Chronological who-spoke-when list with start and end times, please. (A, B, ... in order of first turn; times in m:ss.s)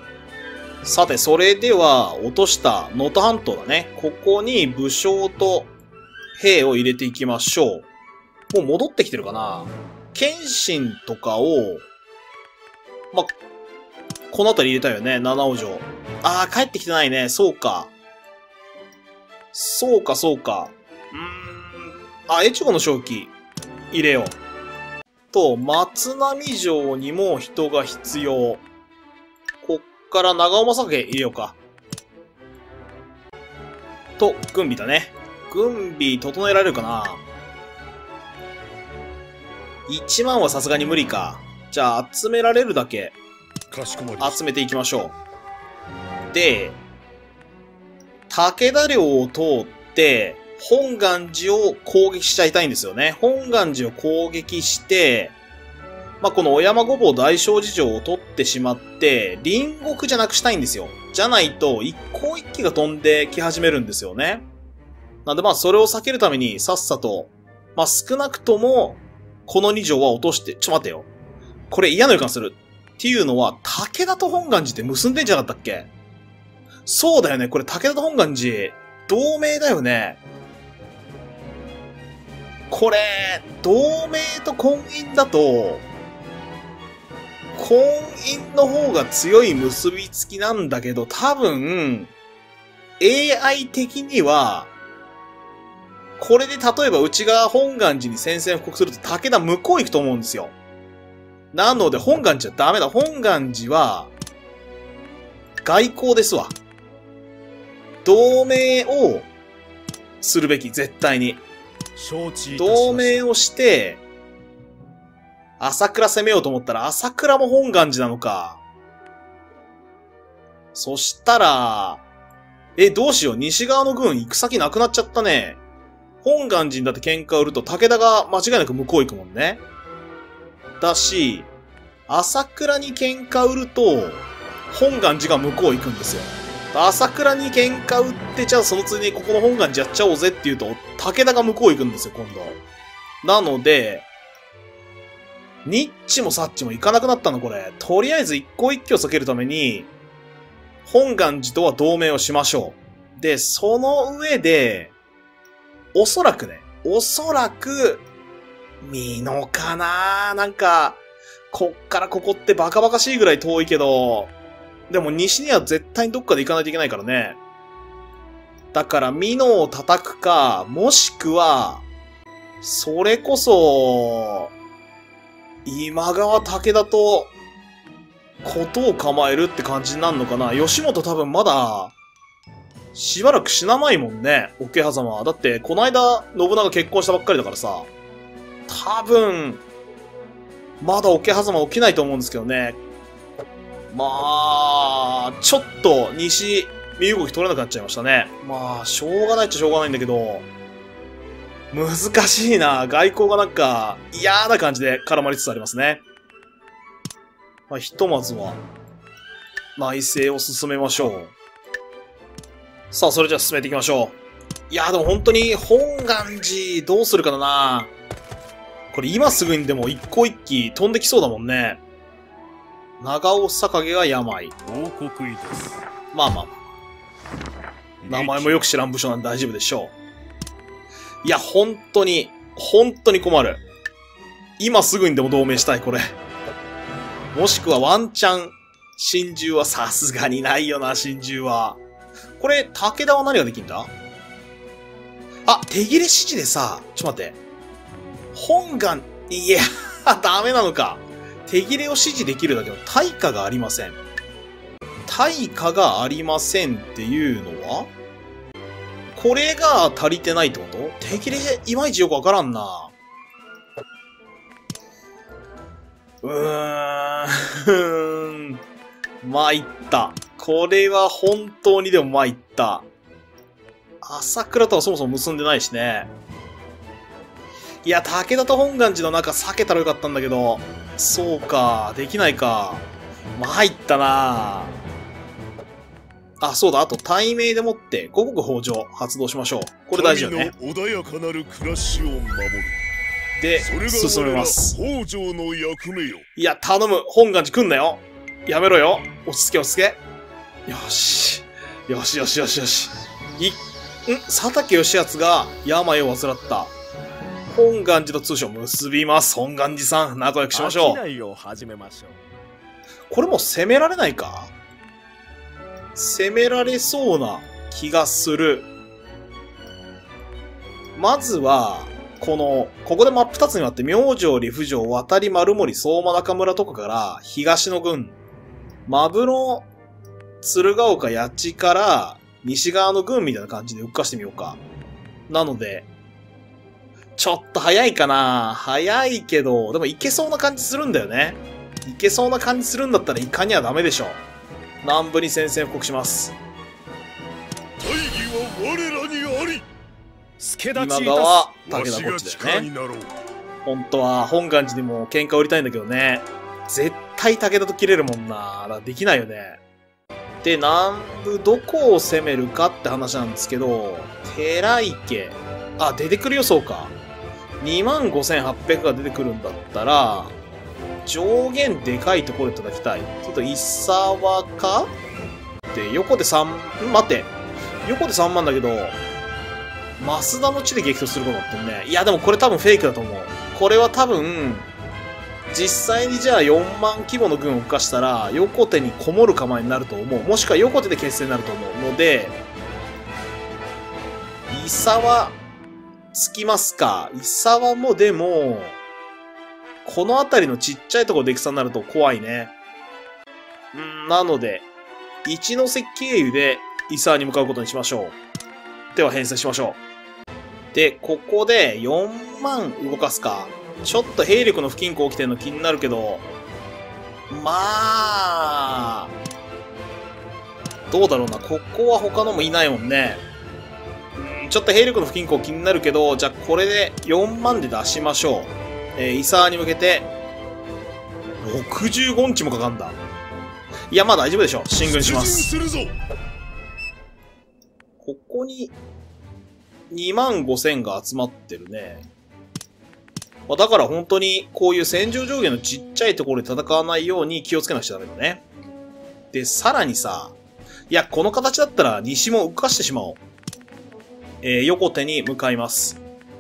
0:00.8-0:05.7 A
0:06.4-0:07.9 A
0:08.5-0:11.9 A
0:14.3-0:17.9 A
0:19.5-0:23.3 A
0:23.9-0:24.4 A
0:25.3-0:28.6 A
0:29.6-0:31.6 A
0:34.2-0:37.2 A
0:39.9-0:43.2 A
0:43.7-0:44.4 B
0:44.2-0:45.2 A
0:46.3-0:46.8 A
0:48.3-0:55.4 A
0:56.2-1:04.5 A
1:05.2-1:11.1 A
1:11.7-1:15.9 A
1:16.9-1:20.2 A
1:22.7-1:25.9 A
1:27.6-1:32.1 A
1:33.0-1:34.7 A
1:36.2-1:40.5 A
1:41.5-1:44.1 A
1:45.6-1:46.6 A
1:48.0-1:49.3 A
1:50.2-1:51.4 A
1:52.0-1:53.2 C
1:52.6-1:54.0 A
1:55.6-1:58.6 A
2:00.7-2:02.0 A
2:02.8-2:05.6 A
2:06.2-2:09.6 A
2:10.8-2:11.5 A
2:12.1-2:22.6 A
2:23.2-2:24.1 A
2:25.6-2:29.9 A
2:30.8-2:34.9 A
2:35.9-2:38.0 A
2:38.8-2:44.3 A
2:44.9-2:47.4 A
2:48.7-2:51.8 A
2:52.6-2:54.5 A
2:55.6-2:57.3 A
2:58.4-3:01.9 A
3:02.9-3:07.9 A
3:08.7-3:09.6 A
3:10.8-3:12.8 A
3:13.9-3:20.5 A
3:21.7-3:26.0 A
3:27.7-3:28.6 A
3:29.8-3:31.4 A
3:32.9-3:34.2 A
3:34.7-3:37.9 A
3:38.9-3:41.8 A
3:43.0-3:44.6 A
3:44.7-3:45.8 B
3:46.1-3:46.5 A
3:48.0-3:48.6 B
3:48.1-3:49.9 A
3:51.2-3:53.6 A
3:54.6-3:56.2 A
3:57.3-4:01.8 A
4:02.4-4:03.9 A
4:05.4-4:07.4 A
4:08.3-4:14.0 A
4:15.1-4:17.9 A
4:19.1-4:22.9 A
4:26.2-4:28.6 A
4:29.2-4:32.9 A
4:34.0-4:36.1 A
4:37.8-4:44.8 A
4:46.4-4:50.5 A
4:49.9-4:52.8 B
4:53.4-4:54.8 A
4:53.6-4:56.2 B
4:56.4-5:00.0 A
5:00.7-5:06.7 A
5:07.5-5:11.0 A
5:10.5-5:12.1 C
5:13.1-5:14.5 A
5:15.9-5:18.7 A
5:21.0-5:28.2 A
5:28.9-5:29.7 A
5:30.4-5:34.6 A
5:35.3-5:35.9 A
5:37.2-5:44.2 A
5:44.8-5:46.4 A
5:47.8-5:49.6 B
5:50.4-5:51.5 C
5:50.8-5:52.7 A
5:51.7-5:53.1 B
5:53.6-5:59.6 A
6:00.4-6:06.9 A
6:07.6-6:10.4 A
6:11.0-6:14.9 A
6:15.7-6:17.3 A
6:17.8-6:19.0 A
6:20.0-6:24.7 A
6:25.5-6:32.4 A
6:34.5-6:35.4 A
6:36.1-6:38.8 A
6:39.8-6:42.5 A
6:43.7-6:44.7 A
6:45.2-6:48.2 A
6:48.9-6:49.8 A
6:50.7-6:56.3 A
6:57.3-6:59.1 A
7:00.9-7:03.2 A
7:04.2-7:10.1 A
7:11.4-7:13.0 A
7:13.9-7:15.5 A
7:14.8-7:15.9 B
7:18.0-7:18.8 A
7:19.9-7:22.0 A
7:23.5-7:28.4 A
7:29.3-7:30.4 A
7:30.9-7:33.2 A
7:34.4-7:36.0 A